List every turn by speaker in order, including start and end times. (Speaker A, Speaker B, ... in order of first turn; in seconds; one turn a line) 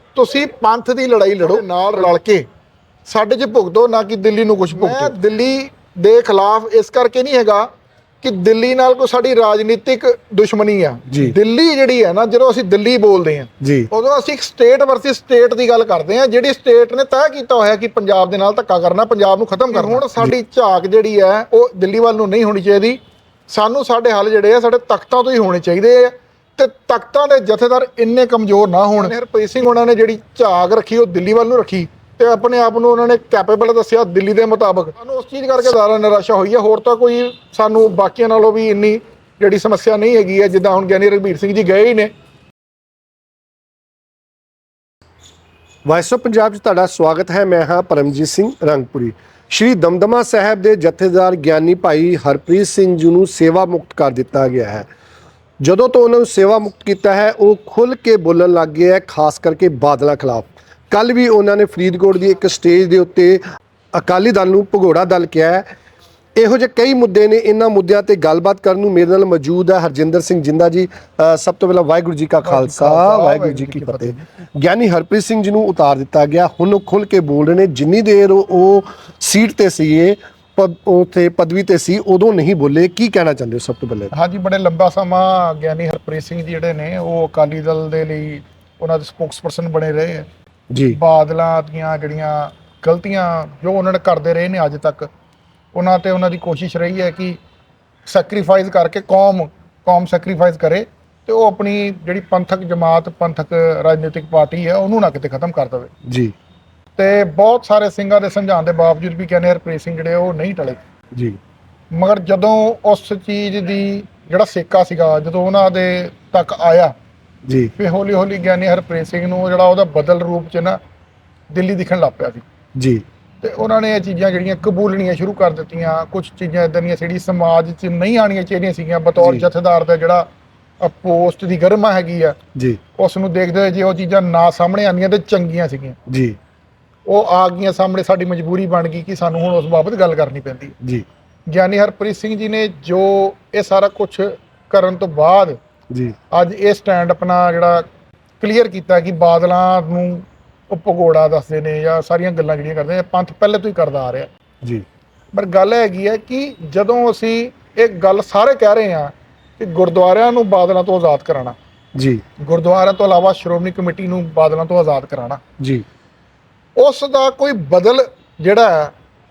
Speaker A: 0.1-2.4
Speaker A: 3.0-7.7
Speaker B: 4.8-5.1
Speaker A: 8.2-42.1
Speaker B: 13.6-13.9
Speaker B: 19.9-20.4
Speaker B: 45.9-54.9
Speaker B: 55.6-63.4
Speaker B: 63.9-65.7
Speaker B: 66.4-84.1
Speaker A: 72.4-74.2
Speaker A: 84.1-90.3
Speaker B: 90.7-91.0
Speaker A: 90.9-95.1
Speaker A: 95.7-97.4
Speaker A: 98.1-105.9
Speaker B: 106.1-106.3
Speaker A: 107.0-110.8
Speaker A: 111.9-116.9
Speaker B: 117.5-117.7
Speaker A: 117.8-120.8
Speaker A: 121.5-122.4
Speaker B: 122.8-123.0
Speaker A: 123.4-130.3
Speaker B: 129.2-129.5
Speaker A: 130.8-132.4
Speaker A: 133.0-136.0
Speaker B: 136.1-136.4
Speaker A: 137.1-140.7
Speaker A: 141.5-145.6
Speaker A: 146.3-147.8
Speaker A: 148.4-154.3
Speaker A: 155.3-161.6
Speaker B: 161.9-162.2
Speaker A: 162.4-165.4
Speaker B: 165.6-165.8
Speaker A: 166.8-168.9